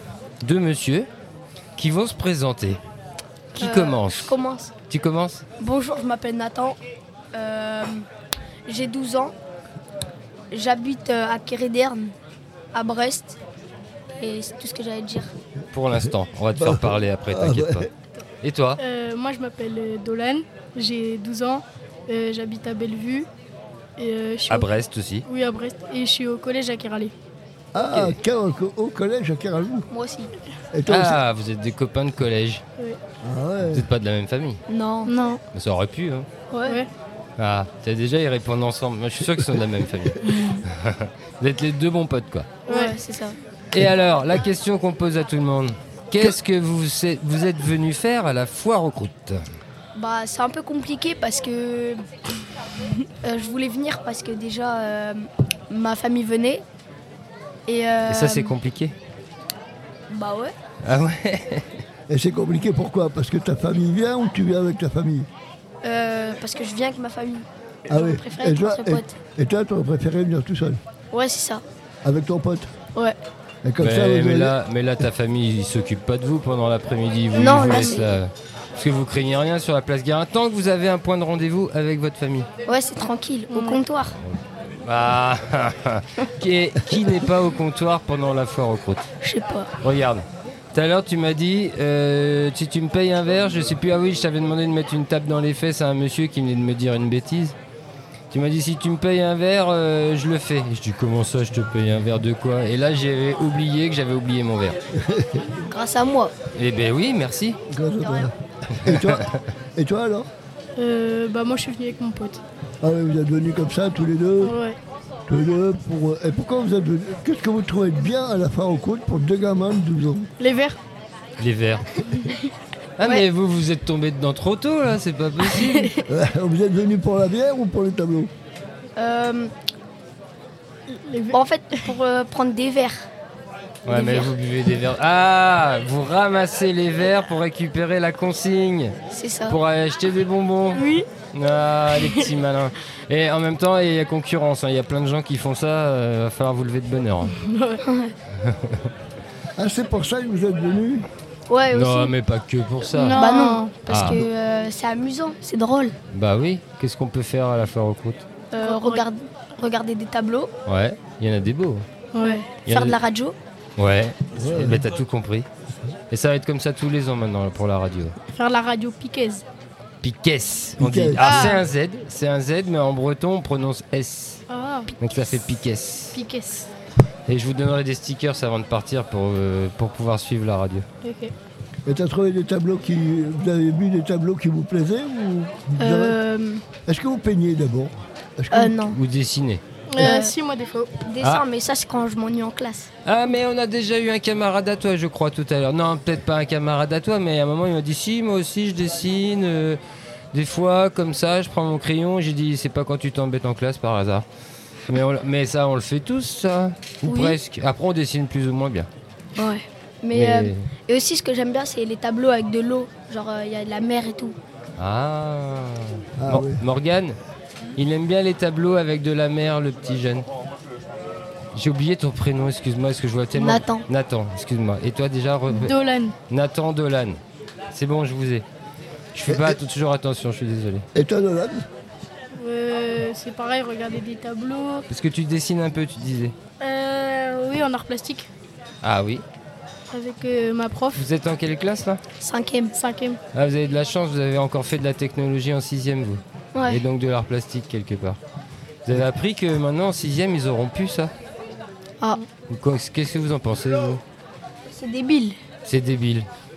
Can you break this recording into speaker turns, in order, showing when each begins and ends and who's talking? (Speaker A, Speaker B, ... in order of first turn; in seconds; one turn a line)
Speaker A: 0.4-1.1
Speaker A: 1.8-2.8
Speaker A: 3.5-4.3
Speaker B: 3.5-4.7
Speaker A: 4.9-5.4
Speaker B: 5.6-6.8
Speaker B: 7.3-8.0
Speaker B: 8.7-9.3
Speaker B: 10.5-12.1
Speaker B: 12.7-13.4
Speaker B: 14.2-15.3
Speaker A: 15.7-17.9
Speaker C: 16.6-17.9
Speaker A: 18.4-18.8
Speaker D: 18.8-23.3
Speaker D: 24.0-24.7
Speaker A: 24.5-25.2
Speaker D: 25.2-27.1
Speaker C: 27.7-29.9
Speaker A: 27.8-28.2
Speaker B: 29.9-30.3
Speaker C: 30.7-31.2
Speaker A: 30.9-32.6
Speaker C: 33.2-33.9
Speaker A: 33.6-34.6
Speaker B: 34.7-35.1
Speaker D: 35.0-35.4
Speaker A: 35.5-36.3
Speaker B: 36.5-36.8
Speaker A: 37.4-42.5
Speaker D: 40.2-40.6
Speaker D: 42.7-43.0
Speaker B: 42.7-43.4
Speaker A: 43.7-49.4
Speaker B: 49.9-52.0
Speaker B: 53.2-56.6
Speaker B: 57.7-58.6
Speaker A: 58.1-58.9
Speaker B: 60.1-60.5
Speaker A: 60.8-61.8
Speaker C: 62.1-65.3
Speaker B: 65.8-69.1
Speaker C: 67.9-70.8
Speaker B: 71.1-71.6
Speaker C: 72.0-72.7
Speaker C: 73.6-74.5
Speaker A: 73.8-82.5
Speaker B: 77.3-78.1
Speaker B: 82.7-84.2
Speaker D: 83.5-83.8
Speaker A: 84.2-89.1
Speaker B: 89.2-89.7
Speaker A: 89.8-97.5
Speaker A: 98.3-104.8
Speaker C: 104.9-105.5
Speaker B: 105.7-106.3
Speaker A: 106.5-107.6
Speaker C: 107.7-109.2
Speaker A: 108.8-109.4
Speaker C: 109.8-110.3
Speaker D: 110.8-112.4
Speaker C: 112.8-114.5
Speaker D: 114.4-114.8
Speaker C: 115.3-120.3
Speaker D: 120.4-120.8
Speaker A: 121.4-122.0
Speaker A: 123.0-125.9
Speaker D: 125.6-126.0
Speaker C: 126.0-128.3
Speaker B: 128.9-129.5
Speaker D: 130.9-131.8
Speaker B: 131.3-133.0
Speaker A: 133.8-138.9
Speaker B: 133.8-134.3
Speaker B: 139.1-139.6
Speaker A: 139.5-147.3
Speaker D: 140.7-141.1
Speaker D: 141.9-142.3
Speaker D: 147.3-147.8
Speaker B: 147.8-148.1
Speaker A: 148.4-148.9
Speaker C: 149.6-151.1
Speaker B: 151.5-152.1
Speaker A: 151.7-153.2
Speaker D: 152.9-153.8
Speaker B: 153.1-155.9
Speaker A: 153.9-154.2
Speaker A: 156.1-158.2
Speaker B: 158.5-160.5
Speaker D: 158.6-159.0
Speaker A: 160.7-161.8
Speaker D: 162.1-162.5
Speaker B: 162.2-163.4
Speaker A: 162.7-163.0
Speaker A: 163.8-165.5
Speaker C: 164.3-164.9
Speaker A: 166.1-168.1
Speaker D: 168.3-169.4
Speaker A: 170.0-174.4
Speaker C: 170.8-171.6
Speaker D: 171.2-171.6
Speaker D: 174.5-174.9
Speaker A: 175.0-176.2
Speaker D: 176.1-176.7
Speaker A: 177.3-180.8
Speaker D: 181.0-181.3
Speaker C: 181.8-186.2
Speaker B: 185.8-186.6
Speaker C: 186.8-188.8
Speaker B: 188.5-189.0
Speaker A: 188.9-189.6
Speaker D: 189.9-190.9
Speaker B: 190.0-190.3
Speaker B: 191.0-192.9
Speaker A: 193.0-199.8
Speaker A: 200.3-204.2
Speaker A: 204.9-208.9
Speaker B: 207.0-207.4
Speaker B: 209.3-214.4
Speaker A: 210.1-210.7
Speaker A: 214.8-217.2
Speaker C: 216.2-216.6
Speaker A: 217.8-220.3
Speaker A: 221.5-225.7
Speaker B: 223.3-223.8
Speaker D: 225.5-226.1
Speaker A: 226.3-227.2
Speaker A: 227.7-228.4
Speaker A: 229.1-230.8
Speaker C: 229.3-229.6
Speaker C: 230.9-231.7
Speaker D: 232.3-234.8
Speaker A: 234.9-236.3
Speaker D: 236.6-238.3
Speaker A: 238.8-239.2
Speaker D: 239.9-241.0
Speaker A: 240.9-242.0
Speaker B: 242.2-242.7
Speaker D: 242.7-243.2
Speaker A: 243.3-248.2
Speaker B: 246.5-246.8
Speaker A: 248.8-251.1
Speaker A: 252.5-254.0
Speaker B: 254.7-255.4
Speaker A: 255.6-256.3